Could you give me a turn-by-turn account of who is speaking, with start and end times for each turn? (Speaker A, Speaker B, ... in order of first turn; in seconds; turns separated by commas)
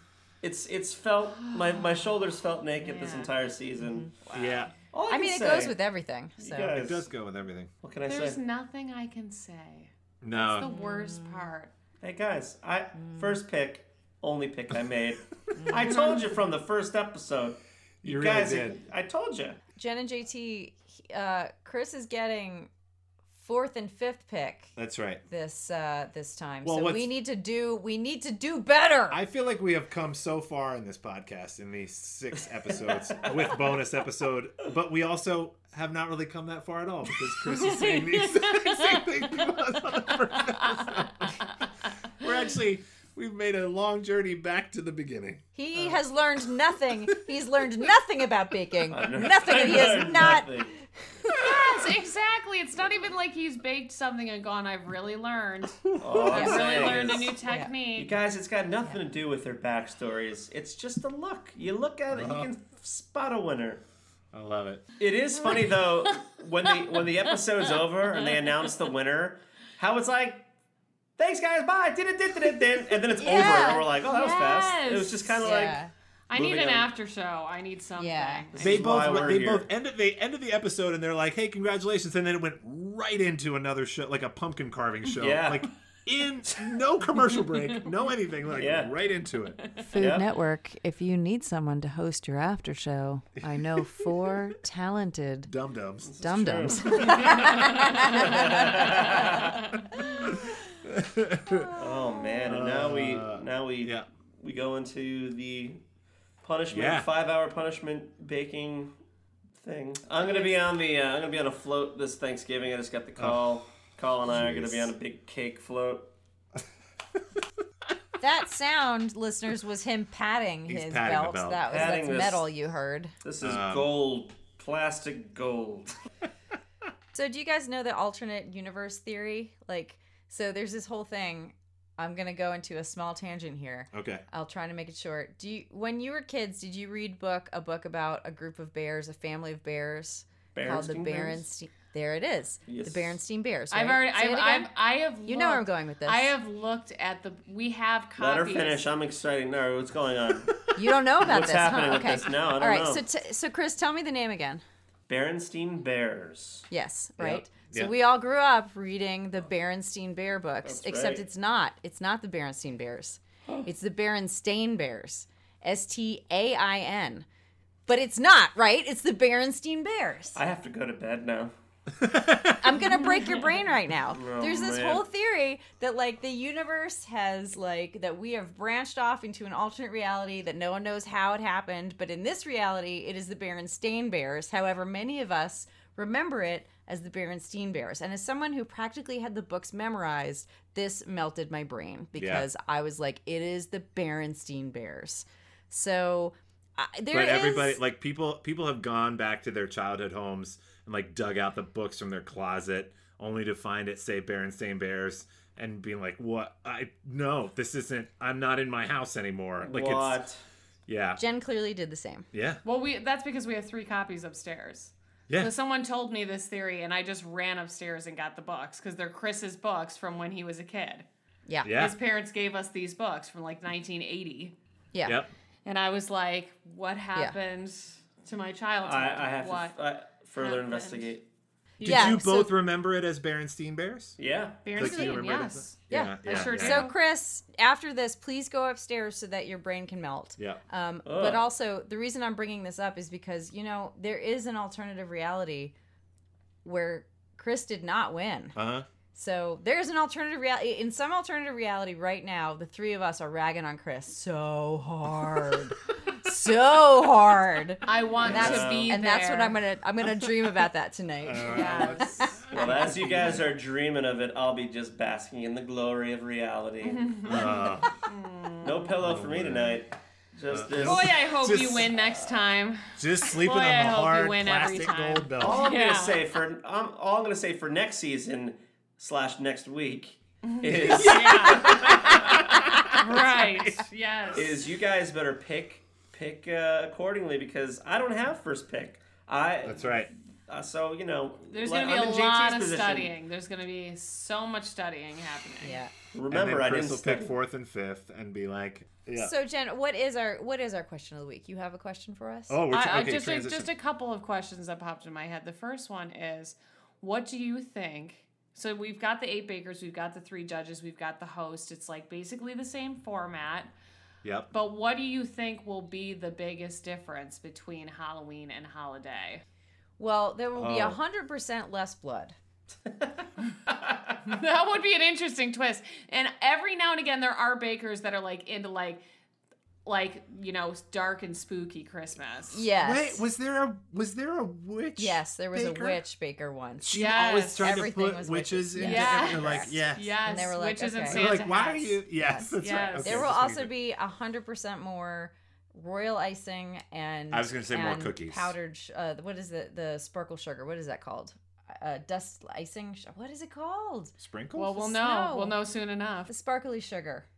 Speaker A: 0.4-4.1, Speaker B: 1.4-2.1, Speaker B: 2.8-3.3, Speaker B: 4.2-4.7, Speaker C: 4.3-4.7, Speaker A: 4.9-5.8, Speaker D: 5.1-6.8, Speaker A: 6.4-7.1, Speaker C: 6.7-7.7, Speaker A: 7.8-8.4, Speaker B: 8.1-11.7, Speaker C: 10.2-10.7, Speaker D: 10.6-11.5, Speaker A: 12.0-19.6, Speaker D: 13.0-13.3, Speaker D: 15.5-16.1, Speaker C: 18.0-18.8, Speaker D: 19.8-22.7, Speaker D: 23.3-24.7, Speaker C: 24.8-25.2, Speaker D: 25.3-29.2, Speaker C: 26.6-27.1, Speaker C: 29.1-41.3, Speaker B: 37.5-39.1, Speaker B: 40.3-41.5, Speaker C: 42.2-46.0, Speaker D: 45.5-50.6, Speaker A: 48.9-50.8, Speaker B: 51.3-58.2, Speaker C: 55.8-56.4, Speaker A: 56.0-57.4, Speaker D: 56.3-56.8, Speaker D: 57.4-57.7, Speaker A: 57.9-63.8, Speaker C: 62.1-62.5, Speaker C: 64.3-64.8, Speaker A: 65.0-70.5, Speaker B: 65.4-67.8, Speaker B: 68.4-68.7, Speaker A: 71.2-75.8, Speaker D: 73.2-73.9, Speaker B: 73.8-75.6, Speaker D: 75.4-75.9, Speaker B: 76.3-78.5, Speaker A: 76.3-76.9, Speaker D: 78.0-78.5, Speaker A: 78.5-79.7, Speaker C: 78.6-89.6, Speaker A: 85.2-85.7, Speaker B: 87.5-87.8, Speaker A: 88.5-88.9, Speaker B: 89.6-89.9, Speaker D: 89.8-95.5, Speaker A: 90.0-90.3, Speaker C: 93.5-94.5, Speaker C: 95.5-97.6, Speaker A: 96.0-99.6, Speaker D: 96.2-98.9, Speaker C: 98.3-99.0, Speaker B: 99.4-99.9, Speaker C: 100.2-101.7, Speaker B: 101.5-102.5, Speaker A: 101.8-105.8, Speaker C: 102.5-104.1, Speaker A: 106.4-108.9, Speaker C: 106.7-107.1, Speaker A: 109.6-116.1, Speaker C: 114.2-114.9, Speaker D: 118.2-123.1, Speaker C: 120.7-121.9, Speaker A: 121.7-122.5, Speaker A: 123.2-125.9, Speaker C: 123.4-123.9, Speaker D: 127.1-144.7, Speaker C: 133.9-134.2, Speaker A: 140.5-141.4, Speaker A: 142.7-143.2, Speaker B: 143.7-148.8, Speaker D: 145.2-146.3, Speaker A: 148.2-150.5, Speaker D: 150.7-154.6, Speaker A: 151.2-153.1, Speaker A: 155.1-156.7, Speaker D: 156.7-167.2, Speaker C: 157.2-157.9, Speaker A: 160.6-161.2, Speaker D: 167.9-170.4, Speaker A: 170.3-171.5, Speaker C: 172.0-172.8, Speaker D: 172.5-197.8, Speaker B: 173.1-173.5, Speaker A: 174.1-175.0, Speaker C: 192.2-192.5, Speaker C: 197.1-210.2, Speaker A: 209.6-210.4, Speaker C: 210.9-211.2, Speaker D: 211.2-212.3, Speaker C: 212.3-212.6, Speaker B: 212.6-221.1, Speaker D: 221.5-221.7, Speaker C: 221.6-221.9, Speaker B: 221.6-224.5, Speaker D: 224.9-225.2, Speaker C: 225.0-225.3, Speaker B: 225.6-229.8, Speaker A: 228.8-231.2, Speaker B: 230.4-231.1, Speaker D: 231.8-232.6, Speaker C: 231.8-234.2, Speaker B: 231.9-232.1, Speaker A: 234.2-235.1, Speaker B: 234.6-237.0, Speaker C: 234.8-236.9, Speaker D: 235.9-245.7, Speaker A: 241.0-241.4, Speaker D: 246.6-248.6, Speaker C: 248.6-248.9, Speaker D: 249.1-262.4, Speaker B: 257.9-259.6, Speaker A: 258.2-259.0, Speaker C: 261.2-263.5, Speaker B: 261.4-262.8, Speaker A: 262.5-267.4, Speaker B: 266.8-268.9, Speaker C: 267.2-268.1, Speaker A: 268.6-271.1, Speaker C: 269.0-269.8, Speaker C: 270.5-272.0, Speaker B: 270.8-276.2, Speaker C: 272.9-275.7, Speaker A: 275.4-282.3, Speaker B: 280.4-284.6, Speaker C: 280.8-283.9, Speaker A: 284.3-293.1, Speaker C: 289.6-290.1, Speaker B: 291.5-295.8, Speaker D: 295.6-295.9, Speaker A: 296.1-297.3, Speaker C: 296.3-299.3, Speaker D: 299.1-302.6, Speaker C: 302.5-303.7, Speaker B: 302.7-313.7, Speaker C: 314.2-314.5, Speaker B: 314.5-319.4, Speaker D: 320.0-322.4, Speaker C: 320.5-321.0, Speaker A: 323.7-323.9, Speaker B: 324.2-329.0, Speaker B: 329.8-332.6, Speaker D: 332.5-333.2, Speaker C: 332.7-336.0, Speaker D: 335.0-354.1, Speaker C: 336.8-340.1, Speaker B: 336.9-337.8, Speaker B: 338.8-342.0, Speaker C: 341.0-343.7, Speaker B: 342.6-343.3, Speaker C: 347.3-348.5, Speaker C: 354.2-354.8, Speaker B: 354.5-356.3, Speaker D: 354.7-355.6, Speaker D: 356.3-357.3